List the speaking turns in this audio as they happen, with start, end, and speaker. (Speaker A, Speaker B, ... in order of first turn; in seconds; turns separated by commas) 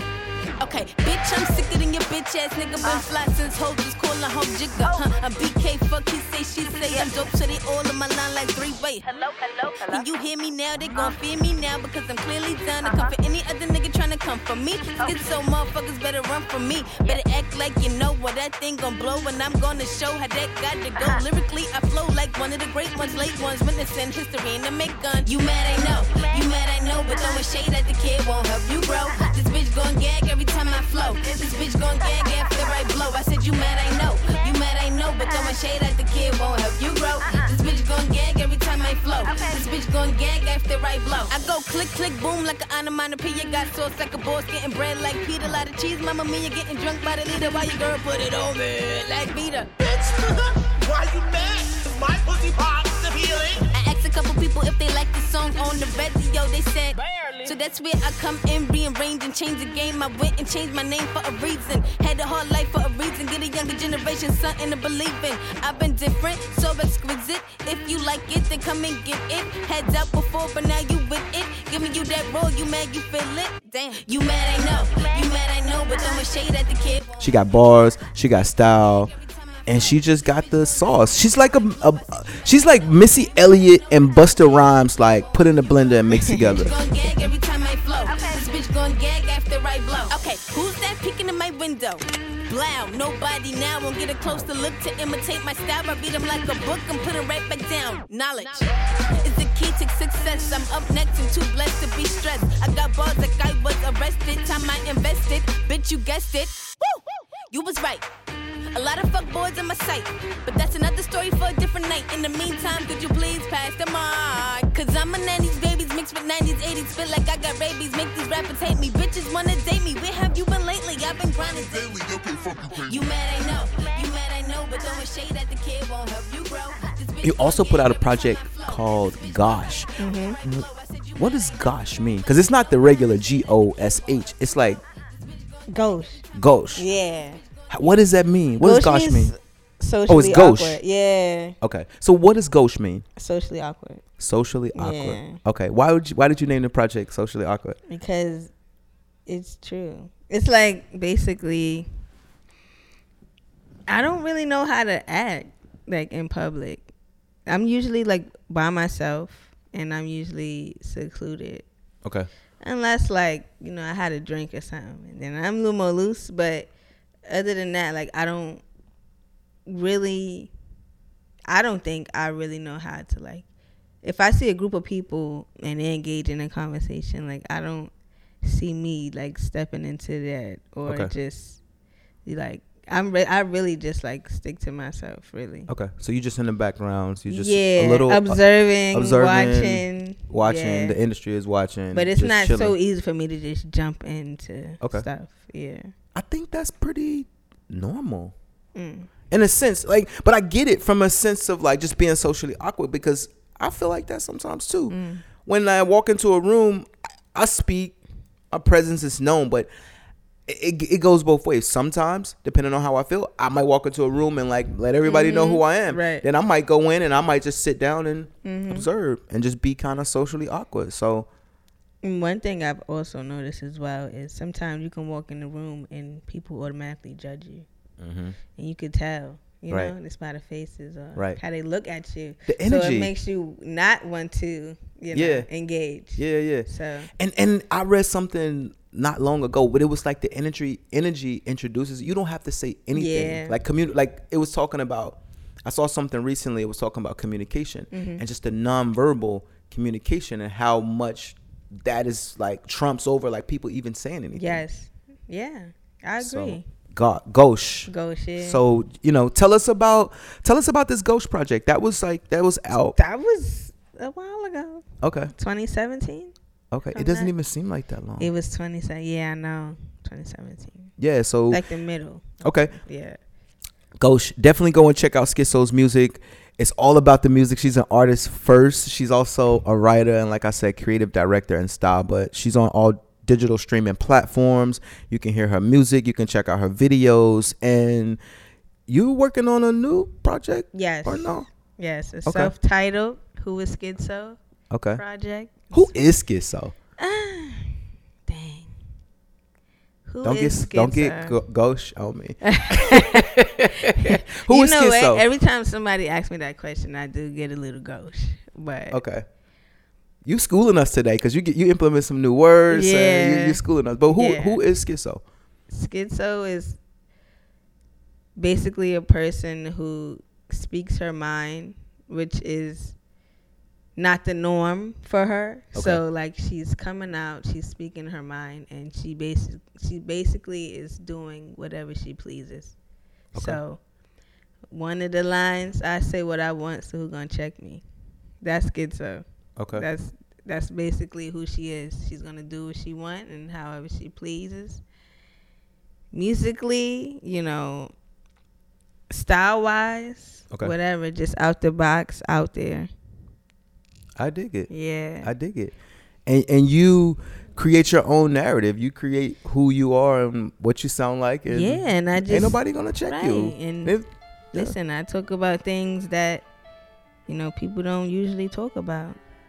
Speaker A: 0.6-49.7, Speaker B: 49.8-53.7, Speaker A: 53.7-77.2, Speaker B: 56.9-57.6, Speaker C: 77.2-79.1, Speaker A: 79.1-80.2, Speaker C: 79.7-86.7, Speaker D: 86.1-86.7, Speaker A: 86.5-108.1, Speaker A: 108.7-129.8, Speaker C: 127.2-130.7, Speaker D: 130.0-130.4, Speaker A: 130.4-131.2, Speaker C: 131.2-134.8, Speaker D: 135.7-136.2, Speaker C: 136.3-136.9, Speaker D: 136.8-137.4, Speaker C: 137.7-139.3, Speaker D: 138.6-141.6, Speaker C: 140.1-140.8, Speaker C: 141.6-143.1, Speaker D: 143.2-144.0, Speaker C: 144.2-147.8, Speaker D: 144.8-145.4, Speaker D: 147.9-148.5, Speaker D: 149.3-151.9, Speaker D: 153.9-156.9, Speaker D: 157.5-161.7, Speaker D: 162.6-166.7, Speaker D: 167.3-168.6, Speaker D: 169.7-170.5, Speaker D: 171.5-173.4, Speaker D: 174.0-177.9, Speaker D: 178.4-181.6, Speaker C: 180.9-181.1, Speaker D: 182.2-185.7, Speaker C: 185.7-192.7, Speaker D: 187.3-191.0, Speaker D: 191.9-195.9, Speaker C: 194.8-195.1, Speaker C: 196.1-198.3, Speaker D: 198.8-199.1, Speaker C: 199.3-208.0, Speaker D: 204.9-205.2, Speaker C: 208.5-209.7, Speaker C: 210.5-221.3, Speaker D: 215.0-216.2, Speaker D: 218.4-218.9, Speaker D: 222.0-227.7, Speaker C: 228.0-228.4, Speaker D: 228.6-237.1, Speaker C: 229.7-229.9, Speaker C: 231.2-231.4, Speaker C: 232.5-233.1, Speaker C: 235.1-235.5, Speaker C: 236.2-254.6, Speaker D: 242.9-243.6, Speaker D: 247.9-248.2, Speaker D: 254.4-256.6, Speaker C: 256.2-263.0, Speaker D: 257.9-258.6, Speaker D: 263.0-266.3, Speaker C: 265.0-265.3, Speaker C: 266.7-268.3, Speaker D: 266.9-267.3, Speaker D: 268.2-270.9, Speaker C: 271.0-271.6, Speaker D: 271.5-273.2, Speaker C: 272.4-272.8, Speaker C: 274.0-288.2, Speaker C: 288.9-291.5, Speaker D: 290.7-294.4, Speaker C: 292.2-292.5, Speaker C: 294.7-295.0, Speaker D: 295.0-295.9, Speaker C: 295.7-296.8, Speaker D: 297.0-298.7, Speaker D: 300.1-301.4, Speaker C: 300.2-305.2, Speaker D: 302.4-303.3, Speaker D: 304.0-309.0, Speaker C: 308.9-309.2, Speaker C: 310.2-315.2, Speaker D: 312.7-313.6, Speaker D: 314.1-314.6, Speaker D: 315.7-316.8, Speaker D: 318.4-323.0, Speaker D: 324.0-332.8, Speaker C: 325.7-326.0, Speaker C: 333.3-333.6, Speaker D: 333.4-333.8, Speaker D: 334.7-337.8, Speaker D: 338.4-344.8, Speaker C: 339.6-339.9, Speaker D: 346.1-347.9, Speaker D: 349.1-352.9, Speaker C: 354.2-355.7, Speaker D: 354.7-355.3, Speaker C: 356.3-364.8, Speaker D: 361.5-364.0, Speaker D: 364.5-366.4, Speaker D: 367.3-369.2